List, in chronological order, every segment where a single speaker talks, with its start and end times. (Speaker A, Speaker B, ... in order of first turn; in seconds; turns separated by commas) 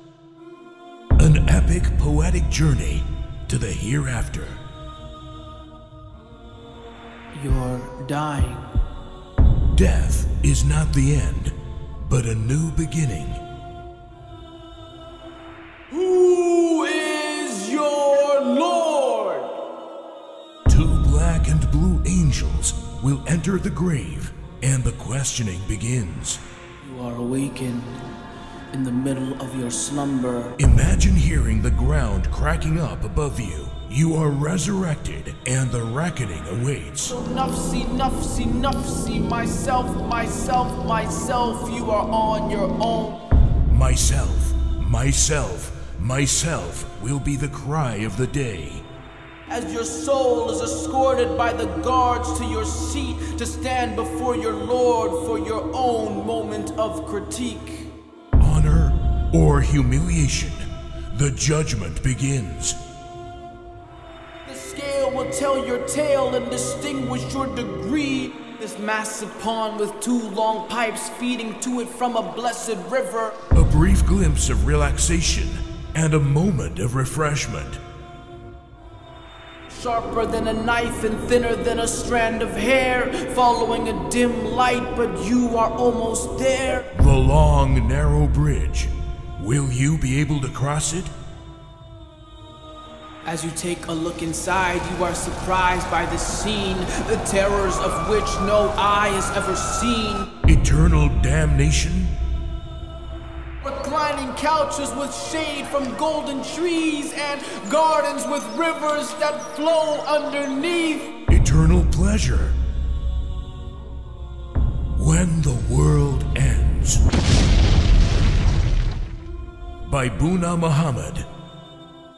Speaker A: 1.2-4.6, Speaker B: 7.3-8.7, Speaker A: 9.7-13.4, Speaker B: 15.9-19.6, Speaker A: 20.7-26.4, Speaker B: 26.8-27.9, Speaker B: 28.7-30.6, Speaker A: 30.6-37.2, Speaker B: 37.1-43.2, Speaker A: 43.7-48.8, Speaker B: 49.5-57.9, Speaker A: 58.4-62.8, Speaker B: 64.5-73.4, Speaker A: 73.5-77.8, Speaker B: 79.7-86.9, Speaker A: 86.9-91.1, Speaker B: 93.2-100.3, Speaker A: 100.5-102.1, Speaker B: 103.6-111.2, Speaker A: 111.3-112.6, Speaker A: 115.0-117.0, Speaker A: 119.8-121.3